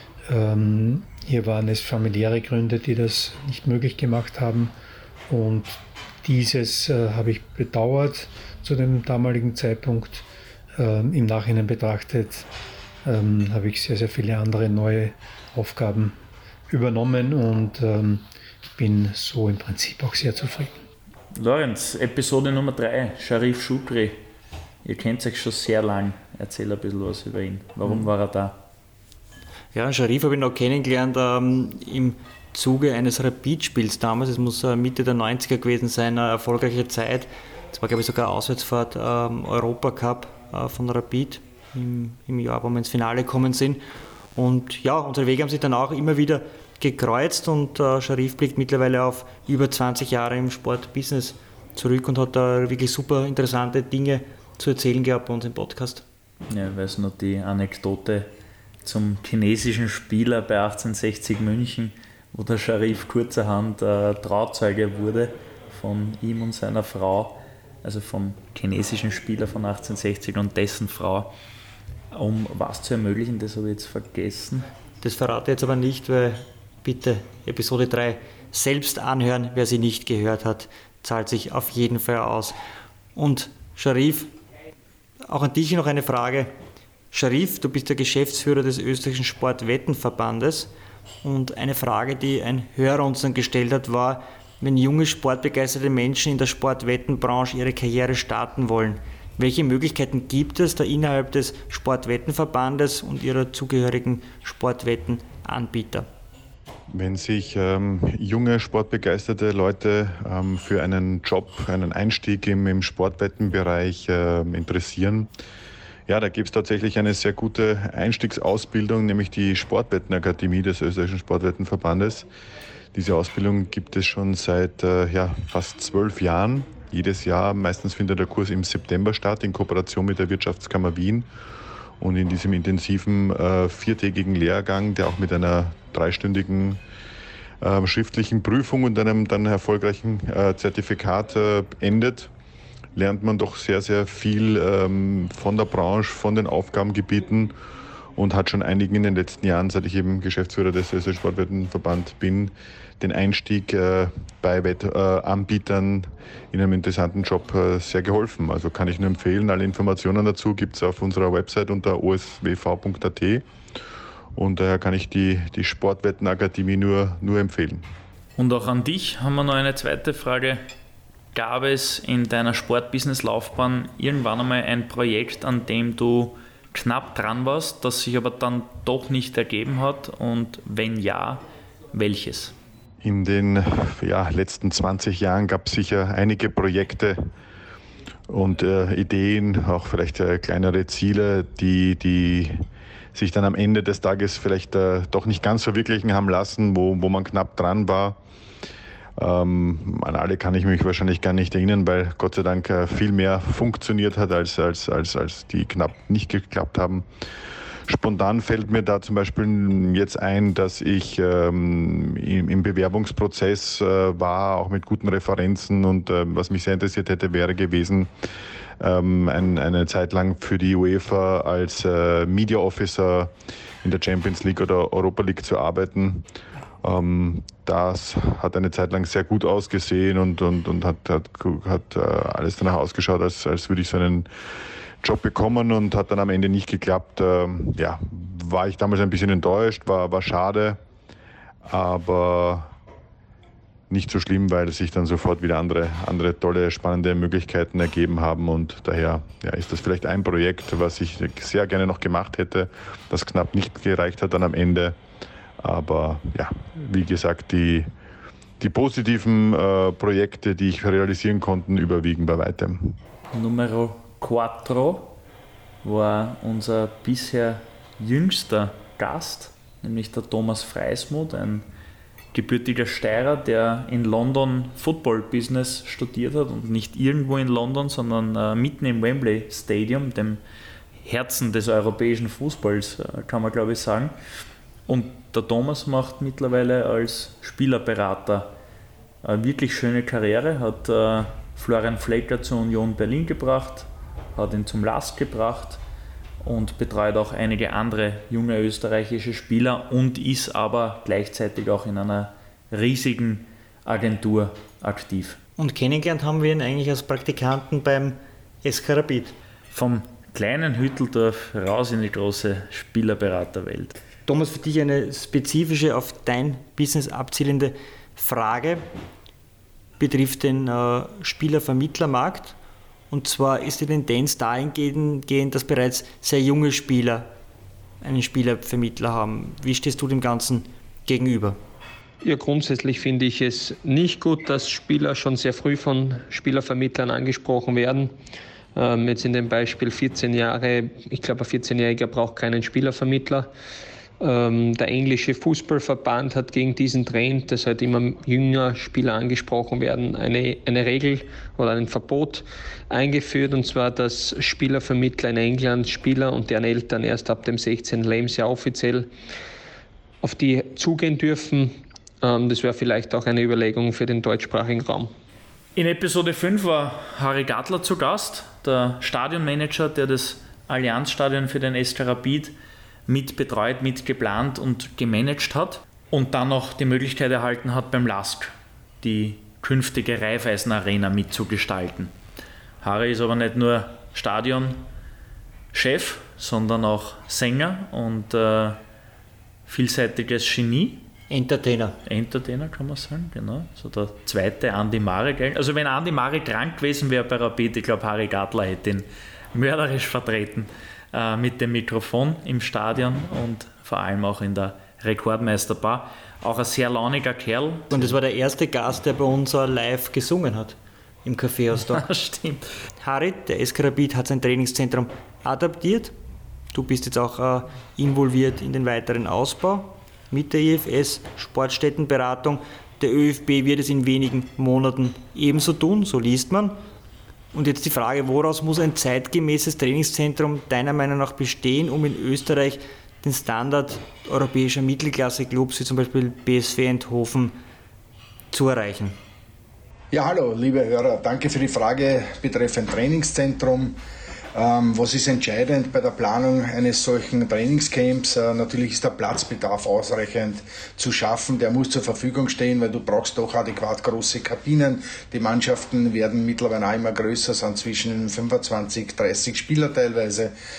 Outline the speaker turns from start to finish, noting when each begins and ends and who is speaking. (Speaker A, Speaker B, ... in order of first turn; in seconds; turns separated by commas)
Speaker A: 0.3-4.7, Speaker A: 5.3-10.3, Speaker A: 10.8-12.5, Speaker A: 13.1-16.2, Speaker A: 16.7-20.8, Speaker B: 21.4-24.2, Speaker B: 24.8-28.6, Speaker C: 29.7-43.8, Speaker C: 44.4-56.0, Speaker B: 56.5-58.3, Speaker B: 58.8-71.3, Speaker B: 72.1-74.7, Speaker C: 75.0-82.6, Speaker C: 83.2-84.3, Speaker C: 85.3-86.5, Speaker C: 87.1-90.7, Speaker C: 91.2-106.1, Speaker D: 106.9-115.3, Speaker D: 116.1-122.3, Speaker D: 122.9-131.3, Speaker D: 132.0-136.8, Speaker D: 137.6-142.3, Speaker D: 142.9-147.6, Speaker D: 148.2-163.4, Speaker D: 164.3-167.9, Speaker B: 168.4-170.6, Speaker B: 171.3-182.6, Speaker D: 183.0-187.3, Speaker D: 188.3-198.2, Speaker D: 199.2-207.1, Speaker D: 207.9-218.1, Speaker D: 218.8-226.3, Speaker D: 226.8-234.3, Speaker D: 235.0-240.8, Speaker D: 241.7-242.7, Speaker D: 243.9-255.0, Speaker D: 255.6-257.9, Speaker D: 258.6-263.0, Speaker B: 263.3-265.1, Speaker B: 265.8-271.6, Speaker B: 272.3-280.4, Speaker B: 281.0-284.1, Speaker B: 284.9-288.5, Speaker B: 289.2-295.8, Speaker B: 296.4-305.4, Speaker C: 305.6-309.4, Speaker B: 309.7-314.0, Speaker C: 314.3-318.9, Speaker C: 320.0-322.6, Speaker C: 323.1-327.3, Speaker C: 328.0-331.6, Speaker E: 332.2-338.2, Speaker E: 338.8-343.5, Speaker E: 344.2-359.1, Speaker E: 360.2-365.1, Speaker B: 365.8-372.5, Speaker B: 373.1-382.1, Speaker B: 382.8-384.8, Speaker B: 385.7-388.8, Speaker B: 389.7-391.1, Speaker C: 391.3-392.0, Speaker B: 392.1-408.1, Speaker C: 407.9-412.0, Speaker B: 411.9-412.7, Speaker C: 413.0-416.1, Speaker C: 416.7-426.8, Speaker C: 427.5-437.6, Speaker C: 438.5-439.2, Speaker F: 440.1-444.0, Speaker F: 444.6-460.5